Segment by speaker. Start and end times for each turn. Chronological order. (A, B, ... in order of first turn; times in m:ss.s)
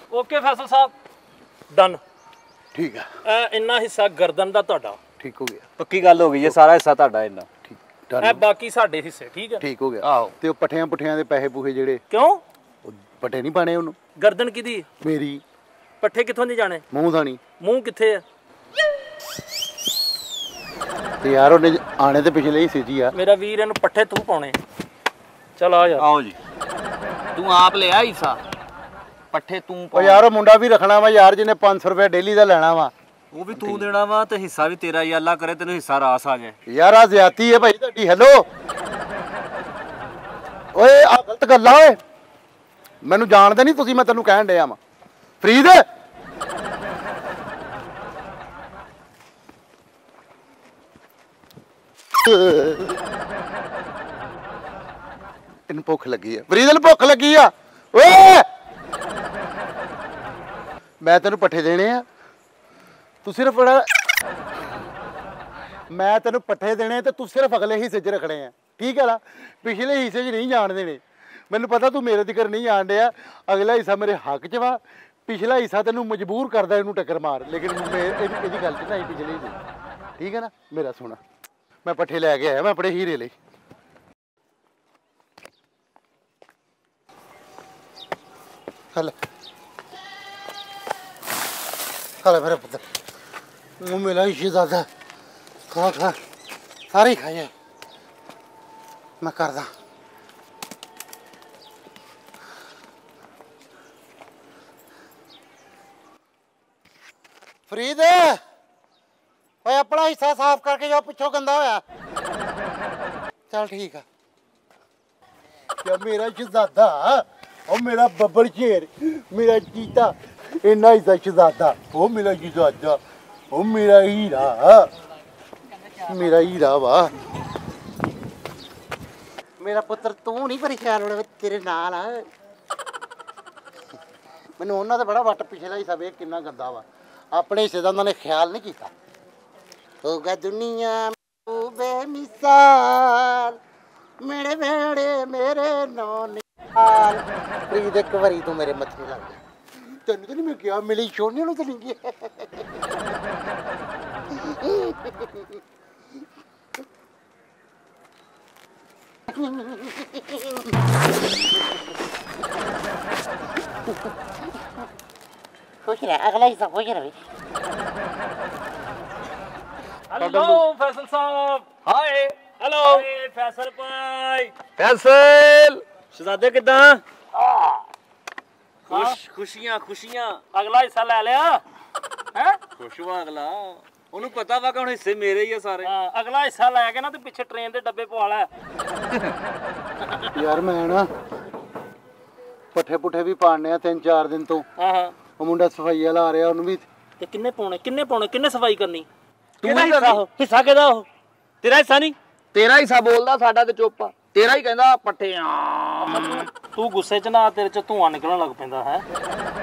0:00.1-0:00.9 A
0:01.7-0:02.0 A
0:02.7-0:03.1 B
0:03.2-0:05.0 A
0:05.2-0:05.7 B
0:05.8-0:07.5 C
0:07.6-0:08.4 B
0:08.2-0:09.6 A
0:09.6-0:12.0 B
0:10.0-0:10.3 C
0:12.1-0:12.4 A
0:12.8-0:14.0 B
0:14.2-0:14.9 A
0:15.0-0:15.4 B
0:16.0-0:16.8 A
0:16.9-0:17.4 B
0:17.6-0:18.2 A
0:21.2-0:23.2 B
0:23.1-0:24.6 A
0:25.6-0:26.1 A
0:26.0-0:26.4 C
0:27.4-0:28.4 D
0:29.3-0:30.2 D
0:29.9-0:32.9 B
0:33.3-0:36.6 C
0:33.6-0:33.9 B
0:36.7-0:38.5 B
0:40.7-0:42.0 B
0:43.0-0:44.8 B
0:45.4-0:45.8 B
0:52.2-0:53.0 B
0:55.7-0:58.4 B
1:01.0-1:02.0 B
1:03.2-1:03.9 B
1:05.9-1:19.6 B
1:20.2-1:21.2 B
1:21.8-1:23.3 B
1:32.2-1:32.8 B
1:33.8-1:34.9 B
1:35.7-1:36.2 B
1:36.9-1:37.5 B
1:39.2-1:39.7 B
1:47.7-1:48.4 B
1:49.6-1:51.8 B
1:53.5-1:54.0 B
1:55.8-2:03.0 B
2:03.5-2:04.9 B
2:06.0-2:07.1 B
2:09.6-2:12.3 B
2:14.6-2:18.9 B
2:20.0-2:23.6 B
2:24.2-2:29.4 B
2:29.9-2:32.8 B
2:34.4-2:35.5 B
2:39.3-2:40.7 B
2:45.9-2:47.1 B
2:50.1-2:51.7 A
2:50.2-2:50.6 B
2:51.9-2:52.3 C
2:52.6-2:54.5 A
2:52.8-2:54.2 C
2:54.8-2:55.8 D
2:56.1-2:57.7 C
2:58.9-3:00.4 C
2:58.9-2:59.2 A
3:00.5-3:01.6 A
3:02.4-3:02.6 A
3:02.8-3:05.9 C
3:05.8-3:08.5 A
3:10.3-3:11.1 B
3:12.7-3:14.7 B
3:14.8-3:15.2 A
3:15.4-3:16.8 B
3:17.2-3:19.1 A
3:19.6-3:20.2 D
3:19.6-3:21.0 A
3:19.7-3:20.6 C
3:21.6-3:22.2 C
3:22.5-3:26.3 D
3:26.0-3:29.1 A